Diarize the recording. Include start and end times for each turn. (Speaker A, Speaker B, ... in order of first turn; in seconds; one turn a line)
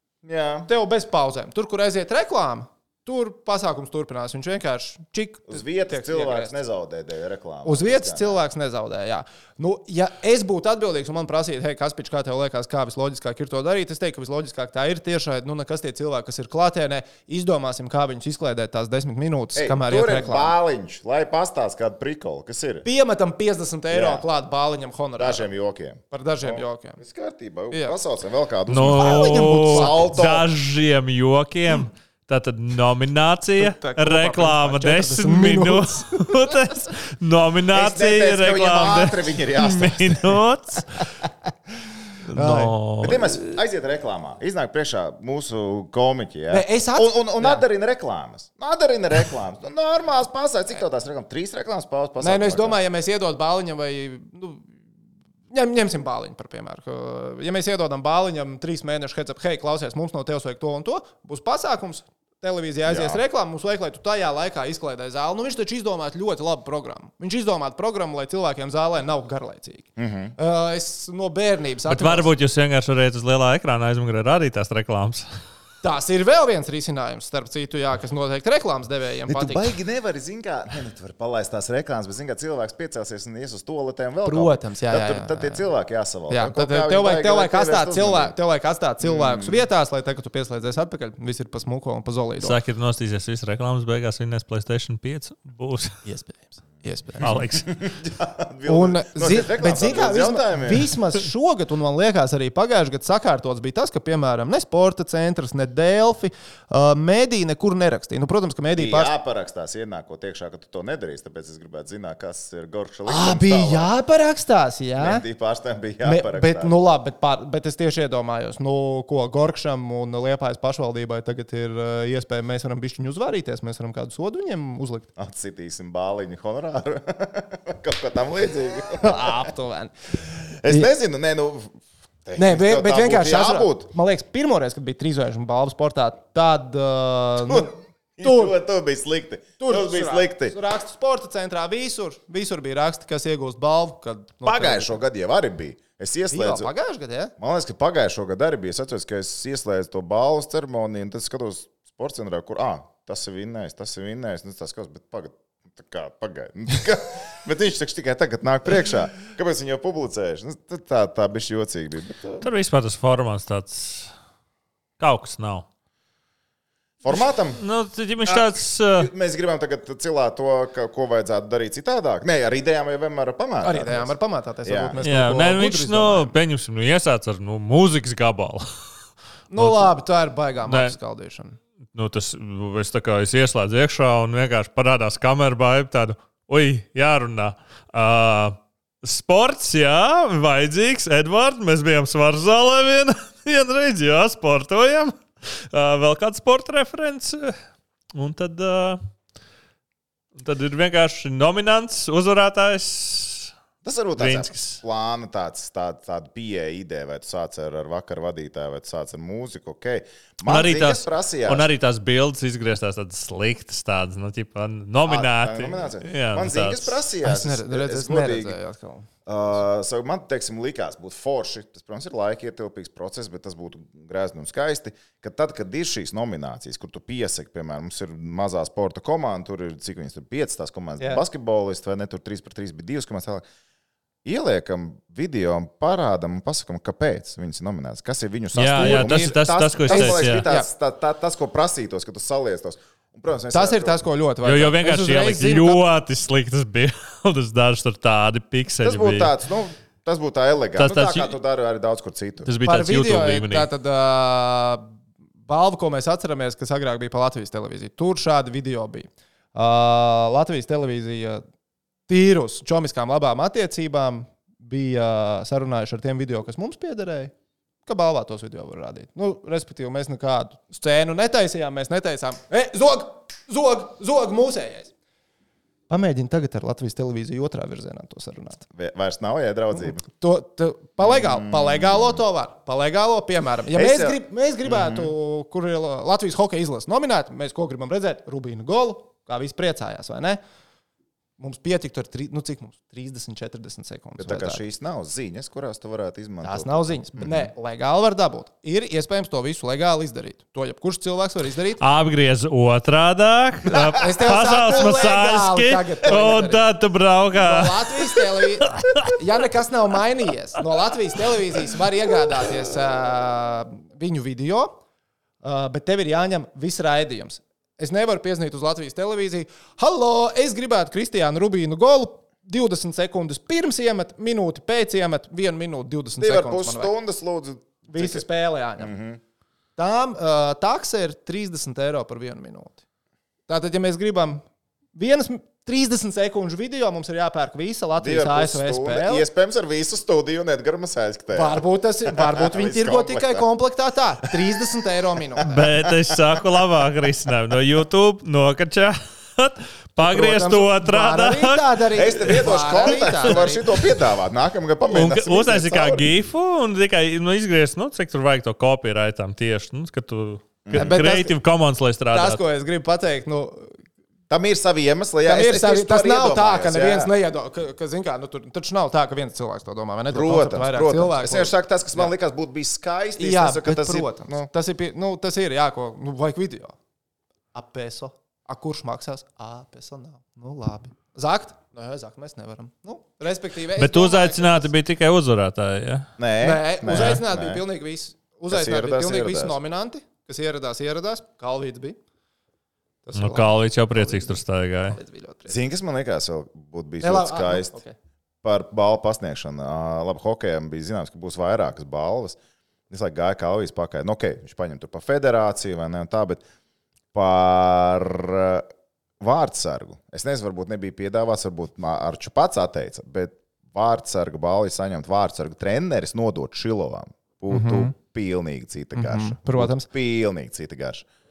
Speaker A: 0.2-0.7
Speaker B: 0.7-6.5
Speaker A: 5.5-8.4
Speaker B: 7.6-20.6
Speaker A: 19.6-22.9
Speaker B: 22.8-25.5
Speaker A: 23.9-24.2
Speaker A: 25.2-30.5
Speaker B: 26.1-27.0
Speaker B: 27.7-28.0
Speaker C: 28.7-41.0
Speaker B: 28.9-30.1
Speaker B: 33.6-36.6
Speaker A: 37.7-40.4
Speaker C: 42.3-43.5
Speaker B: 42.3-42.7
Speaker A: 43.0-52.8
Speaker B: 46.5-47.6
Speaker B: 52.2-54.8
Speaker B: 55.5-72.3
Speaker A: 62.9-63.2
Speaker A: 70.0-70.3
Speaker C: 71.9-75.3
Speaker B: 75.8-79.8
Speaker A: 79.3-88.3
Speaker B: 84.2-85.6
Speaker B: 86.3-92.6
Speaker A: 89.0-89.6
Speaker C: 92.4-95.9
Speaker B: 96.0-97.3
Speaker C: 97.2-97.7
Speaker A: 97.2-100.9
Speaker B: 98.7-109.1
Speaker A: 108.8-113.9
Speaker B: 113.1-115.2
Speaker A: 115.0-116.7
Speaker B: 116.0-125.1
Speaker A: 125.2-129.5
Speaker B: 129.0-129.9
Speaker A: 130.5-133.9
Speaker B: 130.7-130.9
Speaker B: 132.4-138.5
Speaker A: 137.4-140.6
Speaker B: 139.6-145.0
Speaker A: 144.4-146.7
Speaker B: 146.3-147.3
Speaker A: 147.4-162.5
Speaker C: 162.4-164.1
Speaker C: 165.0-165.7
Speaker A: 167.0-167.6
Speaker C: 167.6-169.1
Speaker A: 168.2-174.1
Speaker B: 173.6-176.3
Speaker A: 174.6-175.0
Speaker C: 175.0-178.7
Speaker B: 179.5-181.6
Speaker C: 179.6-179.9
Speaker C: 180.7-180.9
Speaker C: 181.9-197.6
Speaker C: 198.1-199.0
Speaker C: 200.3-203.5
Speaker A: 203.8-211.7
Speaker C: 204.2-204.8
Speaker C: 210.5-217.0
Speaker A: 215.1-218.6
Speaker B: 217.2-219.1
Speaker A: 219.3-233.4
Speaker A: 234.2-244.0
Speaker C: 238.5-240.5
Speaker B: 238.8-239.1
Speaker B: 239.9-240.7
Speaker B: 243.5-245.8
Speaker C: 244.4-249.3
Speaker A: 248.8-252.5
Speaker C: 250.8-251.3
Speaker C: 252.5-253.7
Speaker B: 252.6-254.9
Speaker B: 255.5-261.4
Speaker B: 262.1-267.3
Speaker B: 267.9-274.9
Speaker B: 275.9-278.7
Speaker A: 278.7-280.0
Speaker B: 279.7-290.4
Speaker A: 281.0-282.2
Speaker A: 283.7-285.1
Speaker B: 291.4-294.6
Speaker A: 294.2-297.5
Speaker B: 296.4-301.8
Speaker C: 301.8-309.1
Speaker A: 303.7-304.0
Speaker B: 303.9-306.7
Speaker B: 307.4-314.8
Speaker B: 315.4-326.9
Speaker A: 326.2-328.2
Speaker B: 327.9-328.9
Speaker A: 328.8-329.2
Speaker B: 329.8-332.8
Speaker B: 333.5-334.4
Speaker B: 334.9-339.3
Speaker A: 338.0-343.5
Speaker B: 341.3-345.6
Speaker A: 344.3-344.6
Speaker A: 345.4-346.6
Speaker C: 345.4-352.4
Speaker B: 350.0-353.7
Speaker A: 351.9-356.1
Speaker C: 353.0-353.4
Speaker C: 354.9-362.4
Speaker A: 360.6-361.0
Speaker B: 360.7-361.4
Speaker B: 362.1-363.8
Speaker A: 364.3-367.1
Speaker B: 365.2-372.1
Speaker A: 370.1-374.5
Speaker B: 373.2-376.8
Speaker B: 377.5-384.7
Speaker C: 383.8-386.1
Speaker A: 386.2-387.6
Speaker B: 386.4-392.0
Speaker C: 386.9-387.2
Speaker A: 388.5-389.6
Speaker B: 393.1-395.6
Speaker C: 393.2-395.0
Speaker A: 395.5-397.8
Speaker B: 397.0-397.9
Speaker A: 398.4-402.4
Speaker A: 402.9-406.4
Speaker A: 407.1-408.7
Speaker A: 409.2-421.1
Speaker B: 417.5-417.9
Speaker B: 418.9-419.9